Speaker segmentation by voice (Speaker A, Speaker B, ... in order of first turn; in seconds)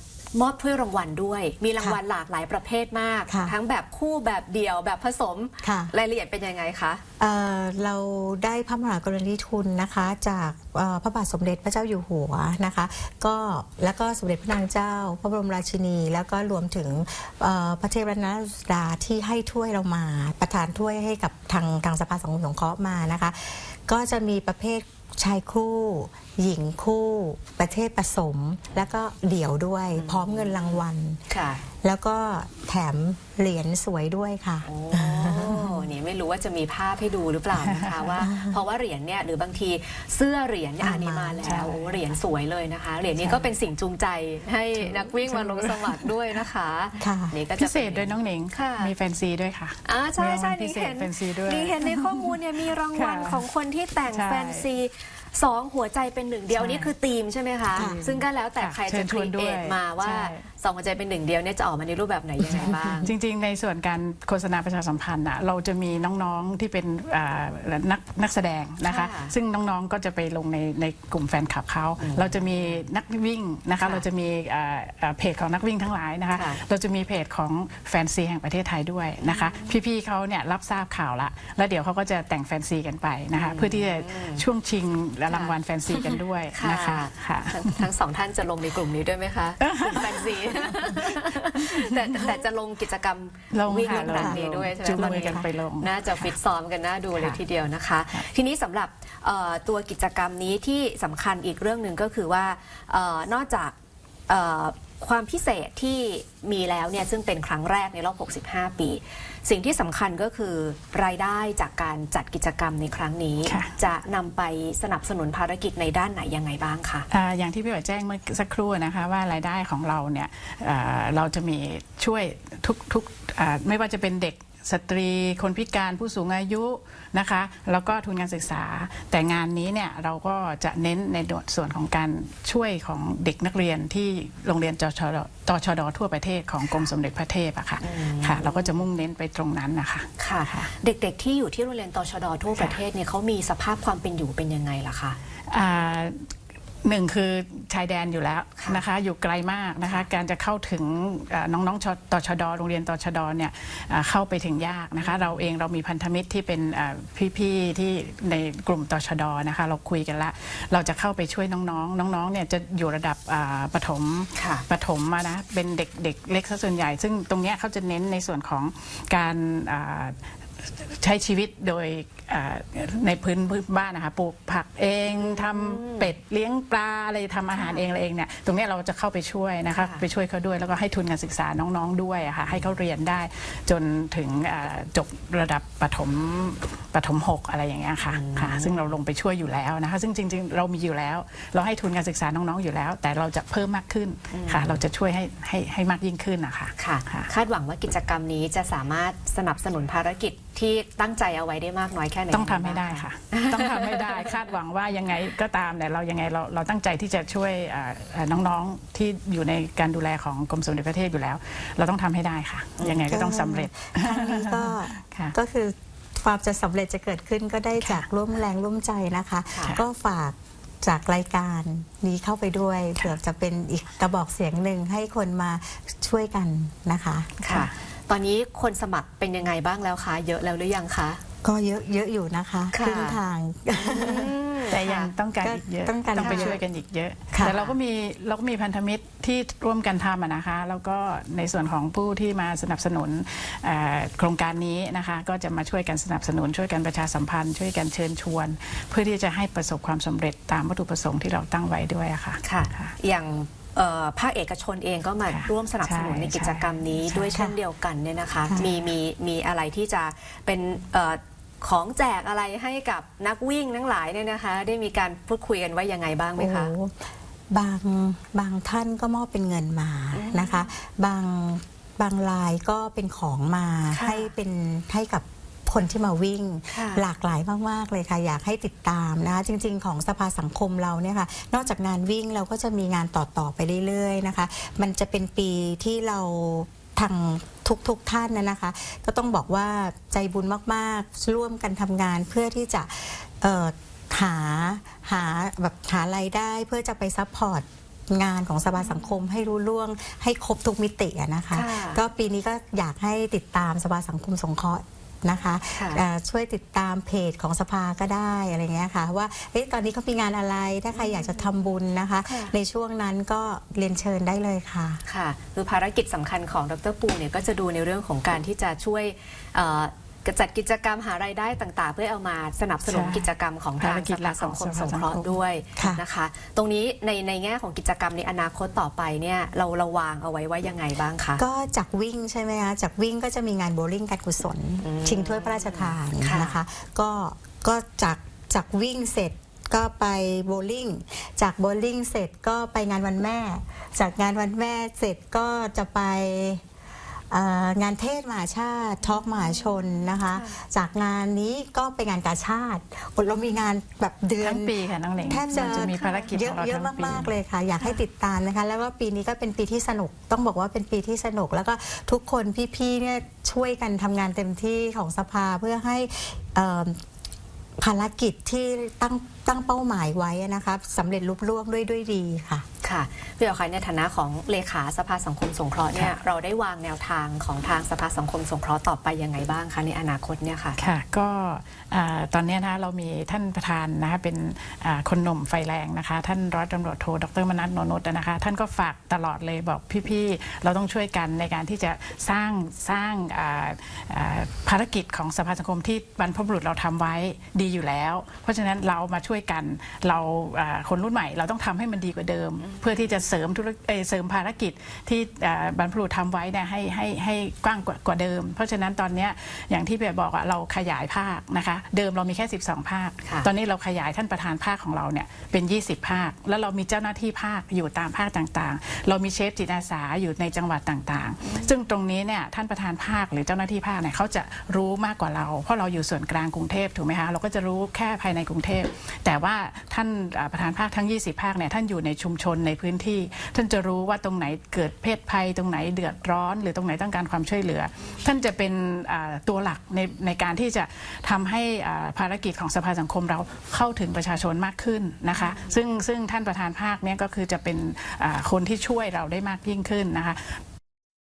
Speaker A: 0.3-7.0, 30.0-31.6, 34.6-48.9, 49.9-63.1, 68.8-69.3, 72.0-72.9, 76.3-76.6, 79.2-79.8, 83.3-84.5, 85.3-85.5, 86.6-103.7, 104.3-117.1, 137.8-138.8, 140.2-145.2, 148.6-148.8, 155.0-155.4, 164.3-164.6, 175.2-176.1, 177.5-177.8, 179.7-180.0, 188.1-188.9, 194.3-194.8, 196.8-204.3, 212.8-213.1, 219.5-219.8, 227.4-231.2, 232.7-233.2, 233.7-235.1, 236.2-236.6, 237.4-237.8, 252.4-266.7, 270.1-270.7, 273.9-274.3, 276.7-277.1, 298.8-299.1, 301.5-302.0, 305.7-306.0, 310.9-311.5, 312.2-312.5, 315.1-331.4, 334.8-336.6, 350.2-350.6, 355.5-356.3, 372.8-380.8, 402.6-403.2, 421.4-421.7, 445.3-445.8
Speaker B: 3.3-3.5, 5.6-5.9, 7.2-31.2, 31.8-35.9, 38.2-38.6, 40.8-41.6, 47.0-47.4, 62.6-63.0, 93.9-94.4, 95.0-95.5, 213.0-227.3, 231.4-234.3, 235.4-236.6, 266.4-315.0, 325.8-326.0, 331.4-346.6, 347.3-354.7, 355.3-367.0, 367.8-372.6
Speaker C: 37.6-38.1, 41.4-42.0, 44.8-46.2, 47.6-53.5, 54.1-54.7, 56.5-56.9, 57.8-60.5, 63.0-87.9, 89.6-92.4, 93.5-96.3, 113.5-113.8, 117.1-140.7, 145.5-146.2, 146.8-197.3, 202.3-215.4, 234.7-253.0, 255.3-257.3, 322.9-325.4, 354.4-357.3, 380.8-450.6